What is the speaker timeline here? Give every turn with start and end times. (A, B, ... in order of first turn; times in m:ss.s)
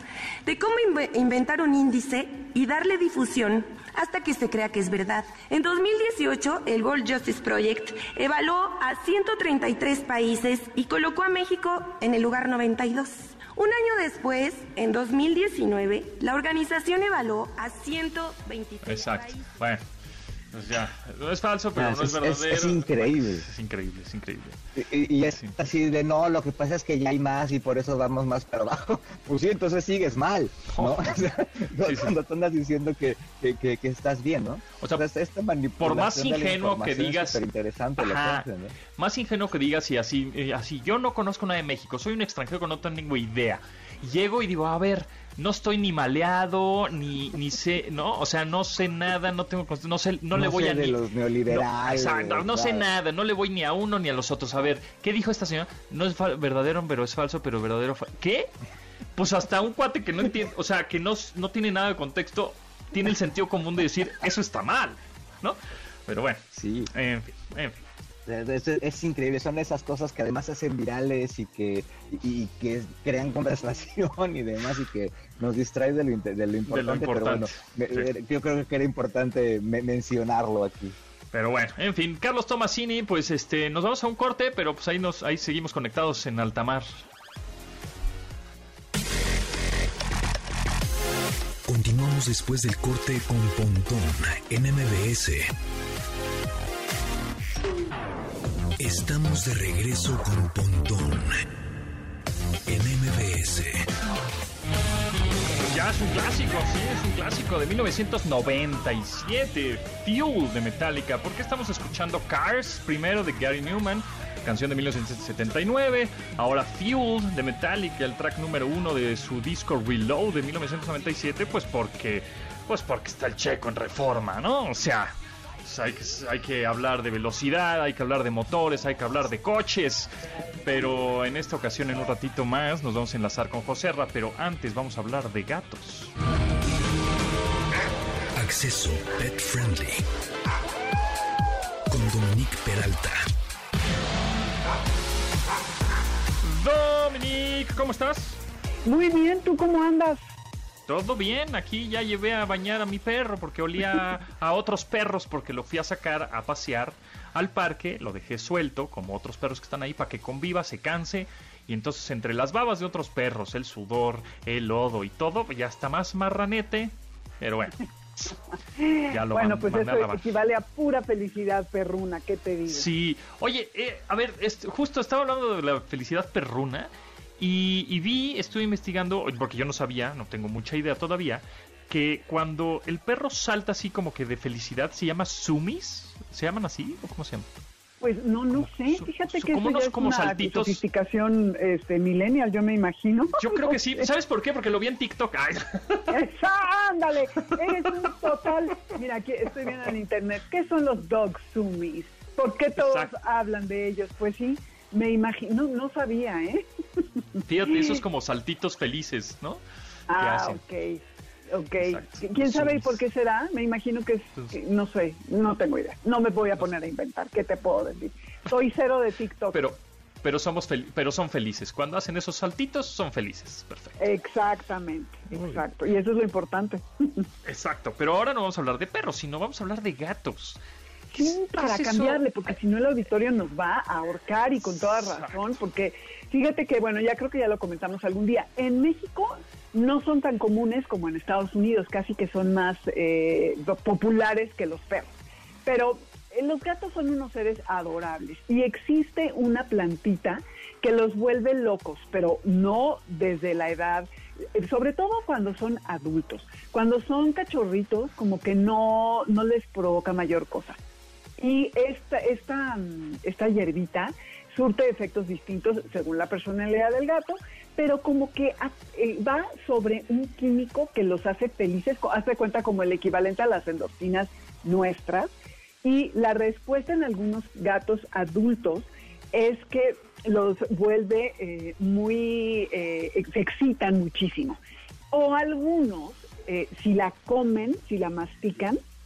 0:00.4-0:19.4 A
0:18.8-0:19.8 B
0:20.5-0:24.6 B
0:21.7-0:23.4 C
0:24.8-0:38.8 C
0:25.3-0:25.6 B
0:30.7-0:31.1 B
0:31.8-0:32.2 B
0:35.8-0:37.4 B
0:38.0-0:58.5 B
0:50.3-0:52.8 C
0:59.2-1:07.8 B
1:06.5-1:06.9 C
1:08.2-1:21.0 C
1:16.7-1:18.1 B
1:21.3-1:27.0 B
1:31.7-1:35.5 D
1:38.8-1:41.4 D
1:42.6-1:43.9 D
1:45.6-2:10.1 B
2:10.6-2:16.1 B
2:18.4-2:20.0 D
2:21.9-2:23.3 D
2:26.4-2:28.4 B
2:28.8-2:30.2 E
2:30.9-2:48.4 B
2:48.8-2:52.9 E
2:49.1-2:50.2 B
2:52.7-3:07.5 B
3:08.0-3:14.0 E
3:08.5-3:10.8 B
3:13.4-3:16.2 B
3:16.1-3:28.0 E
3:17.6-3:18.0 B
3:22.8-3:23.1 B
3:27.4-3:29.6 B
3:30.1-3:39.6 E
3:30.2-3:30.6 B
3:31.8-3:33.0 B
3:39.5-3:44.0 B
3:44.0-3:47.3 E
3:45.3-3:45.6 B
3:47.4-3:50.6 B
3:51.1-4:05.1 E
3:51.2-3:52.2 B
3:54.8-3:55.4 B
4:05.6-4:20.8 E
4:21.4-4:35.3 E
4:35.8-4:44.6 E
4:45.1-4:48.8 E